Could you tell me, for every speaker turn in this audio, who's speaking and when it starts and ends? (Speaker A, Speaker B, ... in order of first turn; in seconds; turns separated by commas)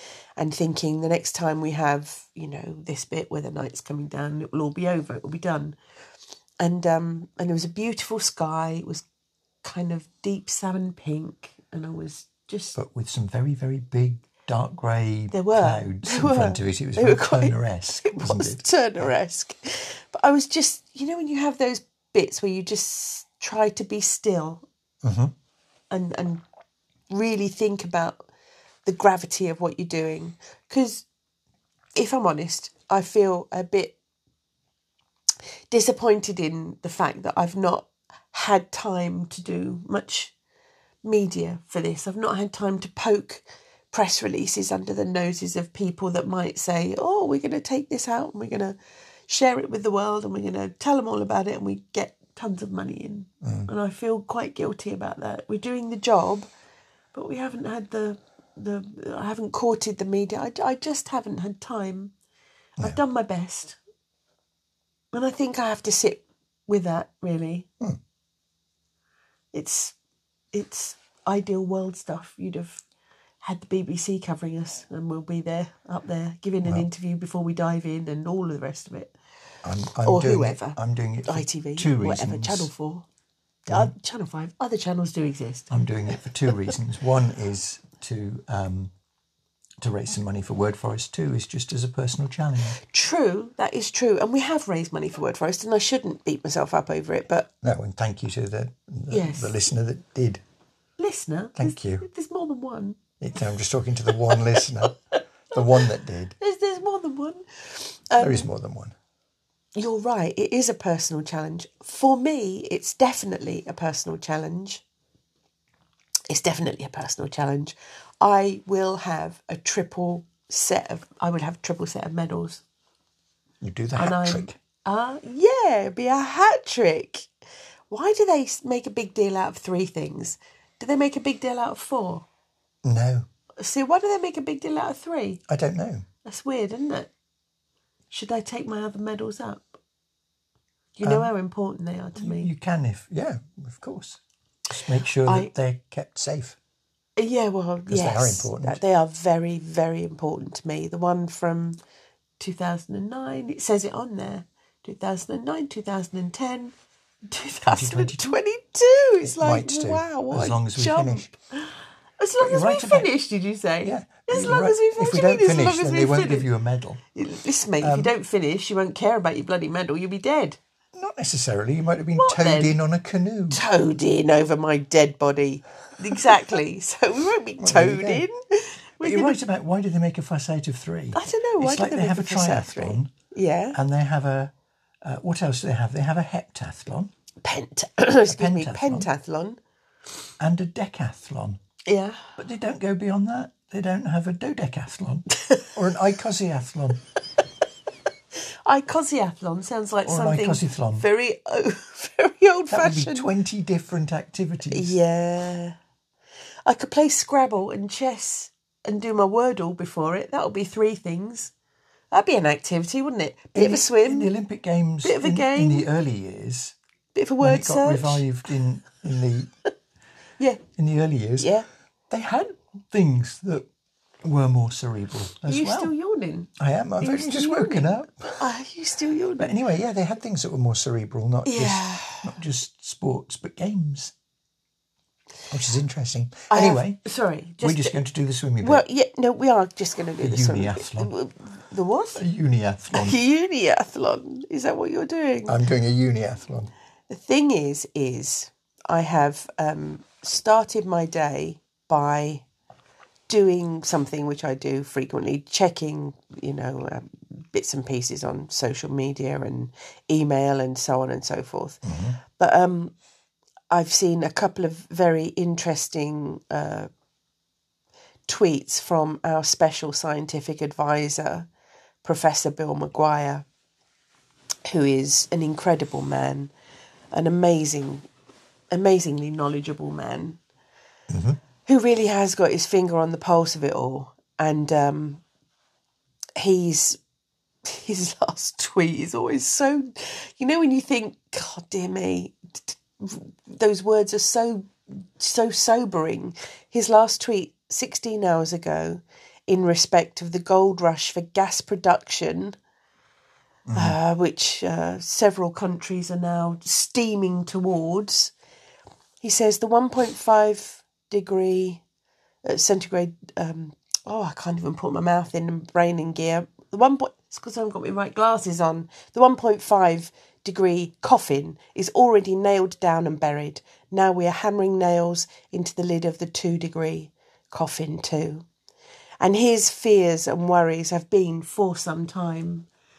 Speaker A: 0.4-5.8, Speaker A: 6.6-9.0, Speaker A: 9.6-12.8, Speaker B: 12.8-19.1, Speaker A: 15.3-24.6, Speaker B: 25.0-25.3, Speaker A: 25.9-26.4, Speaker A: 27.1-28.3, Speaker A: 28.9-31.1, Speaker A: 31.9-34.0, Speaker A: 35.7-40.3, Speaker A: 41.0-56.5, Speaker B: 53.4-53.7, Speaker A: 57.1-62.1, Speaker A: 62.8-63.8, Speaker A: 65.1-67.7, Speaker A: 69.5-70.0, Speaker A: 70.5-72.8, Speaker A: 73.4-79.2, Speaker B: 79.6-82.7, Speaker A: 80.0-83.1, Speaker A: 83.7-85.7, Speaker B: 83.7-83.9, Speaker B: 85.7-88.9, Speaker B: 89.8-92.8, Speaker A: 92.8-97.5, Speaker B: 97.6-100.4, Speaker A: 99.1-99.5, Speaker A: 101.0-103.0, Speaker B: 101.6-102.0, Speaker B: 103.2-105.0, Speaker A: 104.3-104.7, Speaker B: 105.5-106.4, Speaker A: 105.6-105.9, Speaker A: 106.4-108.5, Speaker B: 108.2-109.0, Speaker A: 109.8-114.8, Speaker A: 116.3-122.6, Speaker B: 123.6-124.5, Speaker A: 124.0-127.3, Speaker A: 127.9-132.2, Speaker B: 132.8-133.3, Speaker A: 133.6-135.4, Speaker B: 135.5-136.1, Speaker A: 136.2-137.1, Speaker A: 138.1-139.8, Speaker A: 141.0-142.5, Speaker B: 141.0-141.3, Speaker B: 142.2-144.2, Speaker B: 144.7-146.6, Speaker A: 145.2-145.5, Speaker A: 147.2-151.8, Speaker B: 147.9-148.8, Speaker A: 152.4-156.8, Speaker A: 157.3-166.5, Speaker B: 157.7-158.4, Speaker B: 159.2-161.3, Speaker B: 162.4-163.1, Speaker B: 163.8-167.0, Speaker A: 167.2-170.6, Speaker B: 167.8-168.1, Speaker B: 170.9-173.6, Speaker A: 172.2-172.8, Speaker A: 173.5-179.4, Speaker B: 177.6-178.3, Speaker B: 179.0-183.1, Speaker A: 181.1-183.8, Speaker B: 183.7-184.5, Speaker B: 185.0-187.1, Speaker A: 187.4-189.6, Speaker B: 188.3-189.1, Speaker B: 190.4-191.6, Speaker A: 191.9-192.2, Speaker B: 192.4-197.0, Speaker A: 195.4-195.7, Speaker A: 198.7-203.3, Speaker B: 200.1-201.1, Speaker B: 202.7-205.0, Speaker A: 204.7-205.8, Speaker A: 206.7-211.5, Speaker A: 212.1-214.3, Speaker B: 213.6-216.8, Speaker A: 215.0-215.9, Speaker A: 217.1-218.2, Speaker B: 217.4-219.5, Speaker B: 220.8-221.5, Speaker A: 221.4-221.7, Speaker B: 222.1-223.7, Speaker B: 224.2-225.9, Speaker A: 225.5-229.6, Speaker B: 226.6-228.4, Speaker B: 229.4-234.1, Speaker A: 231.5-232.3, Speaker B: 235.5-237.0, Speaker A: 236.5-238.0, Speaker B: 237.6-238.8, Speaker A: 238.6-242.2, Speaker B: 240.2-241.1, Speaker B: 242.2-243.2, Speaker A: 242.9-245.6, Speaker B: 245.5-246.7, Speaker A: 247.1-252.4, Speaker A: 253.3-262.9, Speaker B: 261.8-262.2, Speaker A: 263.7-266.9, Speaker A: 268.3-271.5, Speaker A: 272.0-273.4, Speaker A: 274.7-276.5, Speaker A: 277.1-278.1, Speaker A: 278.7-280.4, Speaker B: 281.1-281.4, Speaker A: 281.6-285.2, Speaker A: 286.4-287.0, Speaker A: 287.6-302.6, Speaker B: 303.7-304.0, Speaker A: 303.7-308.3, Speaker A: 309.2-311.8, Speaker A: 312.4-328.5, Speaker A: 329.2-332.7